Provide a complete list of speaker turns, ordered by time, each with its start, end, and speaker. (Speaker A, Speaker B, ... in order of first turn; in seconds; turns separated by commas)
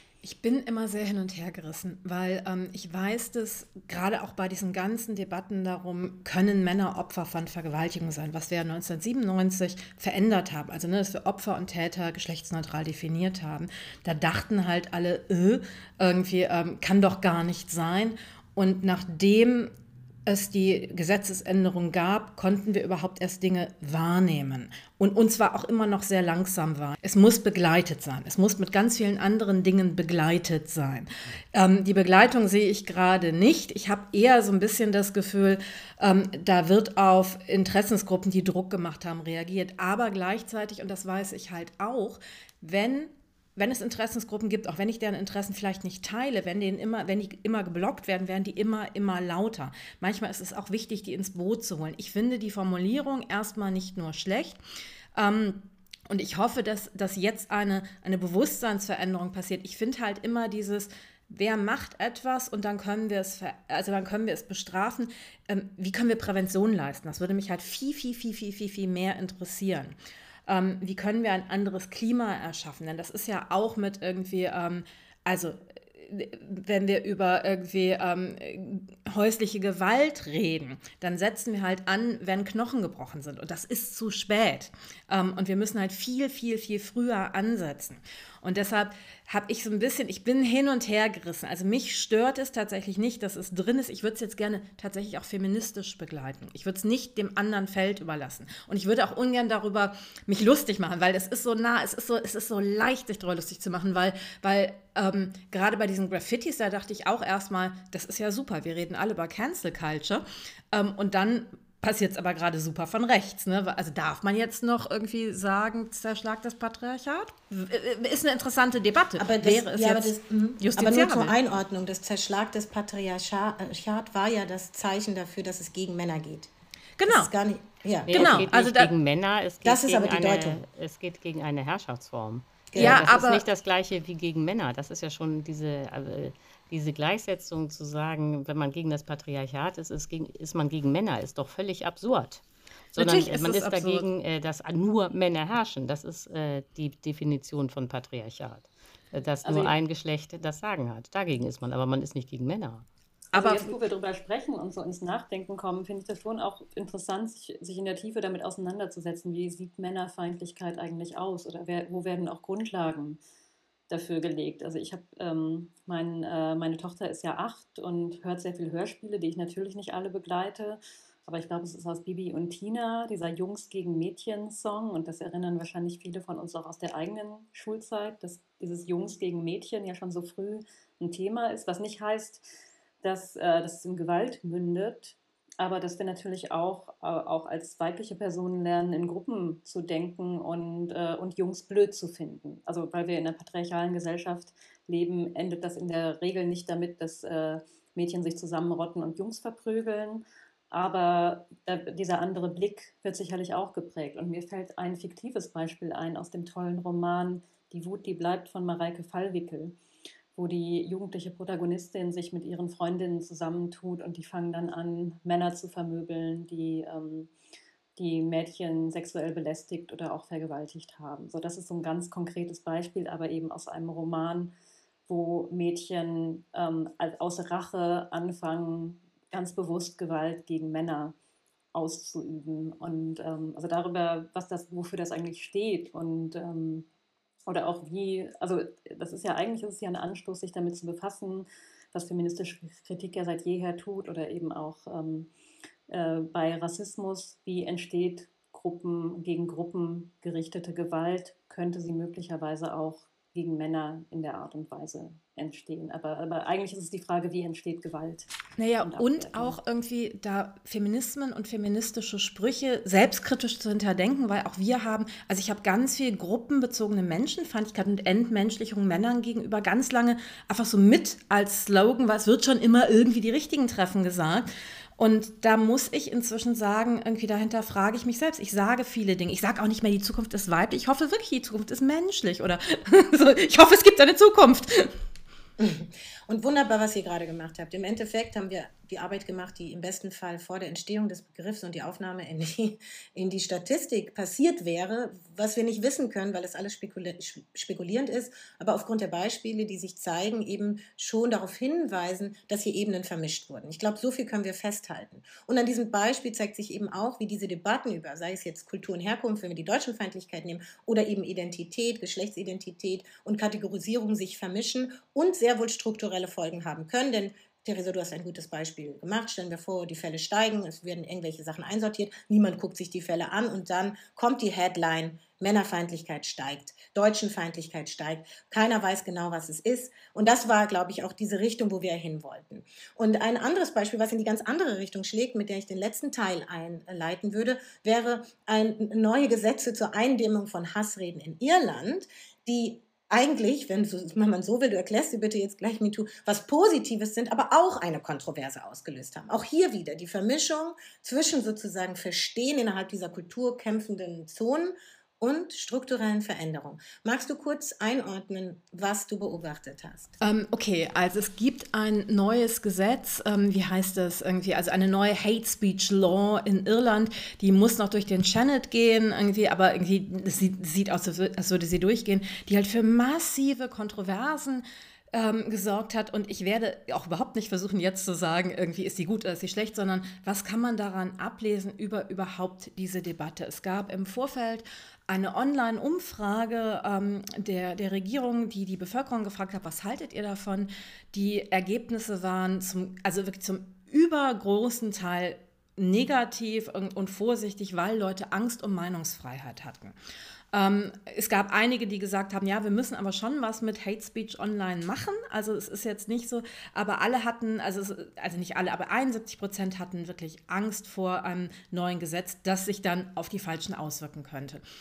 Speaker A: 0.2-19.7, Speaker A: 20.3-54.6, Speaker A: 55.1-70.0, Speaker A: 70.5-121.3, Speaker B: 119.2-126.5, Speaker A: 127.0-127.3, Speaker B: 127.1-128.5, Speaker C: 128.1-142.4, Speaker A: 128.1-128.9, Speaker B: 129.6-130.6, Speaker B: 132.7-133.1, Speaker A: 132.8-133.4, Speaker A: 142.9-144.1, Speaker C: 142.9-152.9, Speaker D: 149.4-149.7, Speaker A: 153.3-153.8, Speaker D: 153.3-163.2, Speaker D: 163.9-182.5, Speaker D: 183.0-209.8, Speaker D: 210.3-217.3, Speaker D: 218.0-224.5, Speaker D: 225.1-231.2, Speaker D: 231.7-236.9, Speaker D: 237.5-245.3, Speaker D: 245.9-258.3, Speaker A: 258.6-284.9, Speaker D: 258.8-259.6, Speaker B: 285.6-360.1, Speaker A: 360.2-399.9, Speaker A: 400.5-414.6